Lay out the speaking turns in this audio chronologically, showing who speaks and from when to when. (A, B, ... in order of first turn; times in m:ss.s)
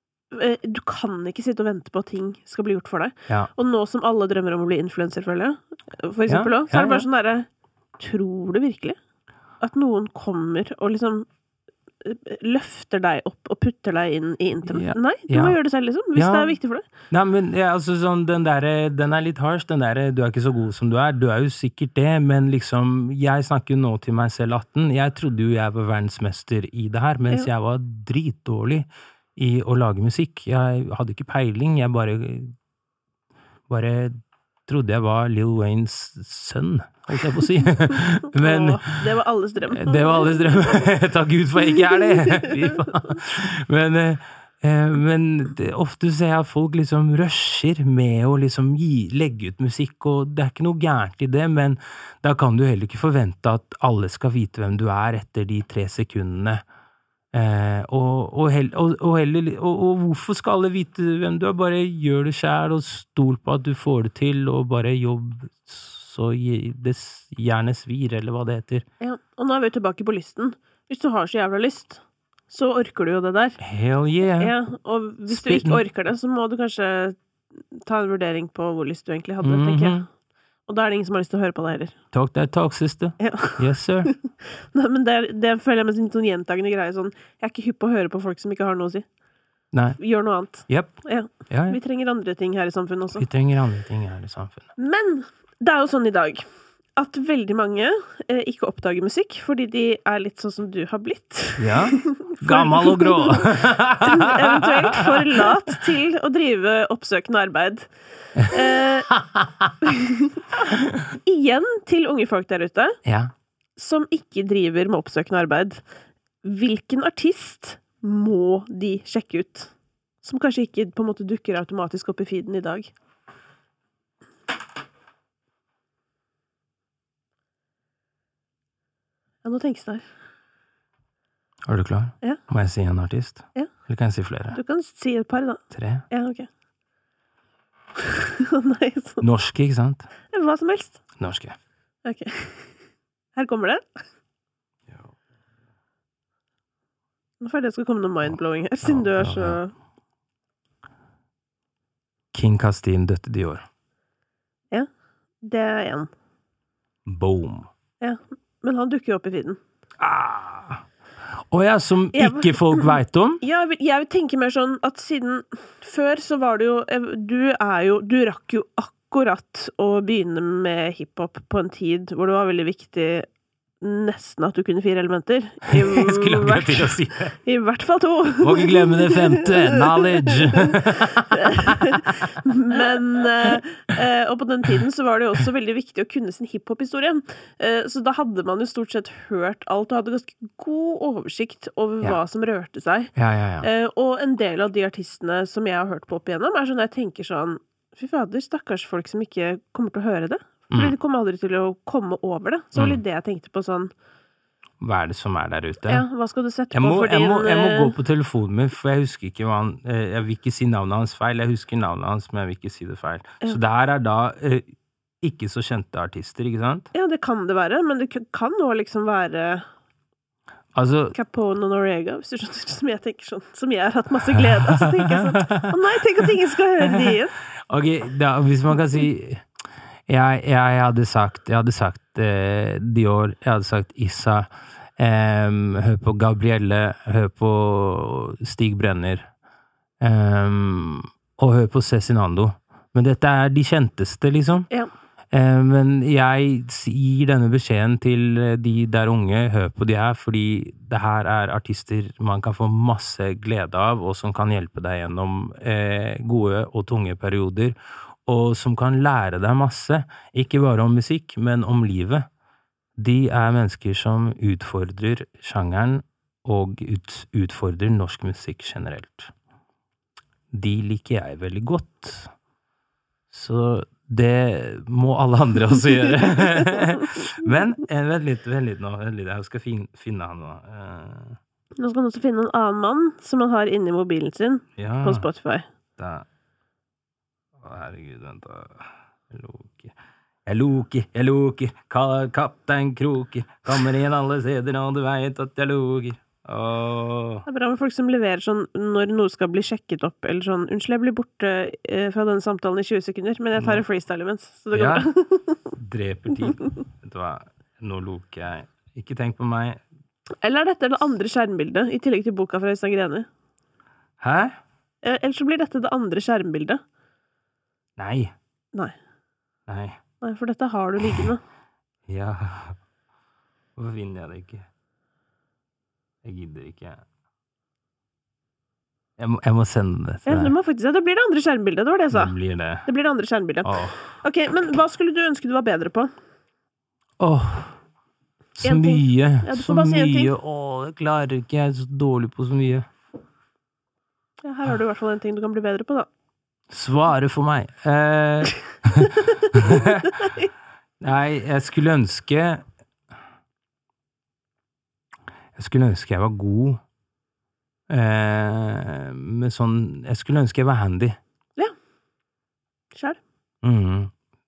0:00.3-0:07.5 A
0:06.3-0:07.0 B
0:08.0-0:09.0 A
0:09.6-0:11.3 A
0:12.0-0:16.9 A
0:14.6-0:15.6 B
0:16.1-0:16.6 B
0:17.1-0:32.5 B
0:33.7-0:34.2 B
0:34.7-0:39.0 B
0:38.5-0:40.2 A
0:39.7-0:56.6 B
0:57.3-1:08.8 B
1:09.0-1:13.6 A
1:13.6-1:14.5 B
1:14.4-1:17.2 A
1:15.3-1:15.8 B
1:17.8-1:20.0 A
1:19.4-1:20.0 B
1:20.7-1:21.9 A
1:22.1-1:24.1 B
1:23.2-1:23.6 A
1:24.7-1:29.0 A
1:29.7-1:31.8 B
1:30.0-1:33.2 A
1:33.1-1:34.6 B
1:34.8-1:36.4 A
1:37.0-1:47.9 A
1:41.6-1:45.5 B
1:48.4-1:49.7 B
1:48.5-1:49.1 A
1:49.9-1:50.4 A
1:51.2-1:53.0 A
1:53.0-1:53.3 B
1:53.8-1:55.8 A
1:56.4-2:02.9 A
2:09.4-2:10.0 A
2:11.6-2:14.6 B
2:14.5-2:16.5 A
2:15.7-2:16.0 B
2:18.0-2:19.2 A
2:19.2-2:20.1 B
2:20.3-2:21.0 A
2:21.2-2:21.5 B
2:22.0-2:22.7 A
2:23.4-2:23.8 A
2:27.4-2:29.7 A
2:28.2-2:29.6 B
2:32.3-2:33.6 B
2:35.4-2:36.1 A
2:37.1-2:37.7 B
2:38.0-2:39.6 A
2:40.0-2:40.8 B
2:41.5-2:43.4 B
2:42.1-2:53.3 A
2:53.8-2:56.7 A
2:55.6-2:57.4 B
2:57.4-2:59.2 A
2:58.4-3:02.3 B
3:02.4-3:13.1 A
3:13.1-3:13.7 B
3:13.6-3:23.9 A
3:22.8-3:23.0 B
3:24.8-3:26.0 B
3:25.9-3:27.9 A
3:26.7-3:34.6 B
3:35.2-3:36.9 B
3:36.9-3:39.6 A
3:40.8-3:41.2 B
3:41.2-3:47.3 A
3:44.3-3:46.2 B
3:46.8-3:49.4 B
3:50.1-3:54.4 B
3:55.0-3:59.2 B
4:00.0-4:04.7 B
4:05.3-4:22.2 B
4:23.0-4:29.3 B
4:30.5-4:32.3 B
4:33.3-4:41.4 B
4:41.8-4:45.7 A
4:44.8-4:45.3 B
4:46.0-4:46.2 B
4:47.6-4:49.9 B
4:50.4-4:57.4 B
4:57.5-5:05.6 A
5:03.5-5:03.9 B
5:04.7-5:05.1 B
5:05.7-5:09.8 B
5:10.4-5:13.3 A
5:14.2-5:14.5 B
5:15.0-5:16.8 A
5:18.0-5:18.3 B
5:19.7-5:20.0 B
5:20.2-5:21.4 A
5:21.0-5:21.3 B
5:22.1-5:22.8 B
5:23.8-5:24.6 B
5:26.2-5:27.0 B
5:29.2-5:30.5 B
5:30.2-5:32.3 A
5:32.1-5:32.9 B
5:32.9-5:33.7 A
5:33.6-5:34.0 B
5:34.2-5:36.1 A
5:37.2-5:37.8 B
5:38.6-5:42.9 B
5:38.6-5:40.3 A
5:44.4-5:46.1 A
5:46.7-5:50.2 B
5:51.0-5:52.6 B
5:55.5-5:56.8 B
5:57.9-6:01.2 B
6:03.6-6:04.1 B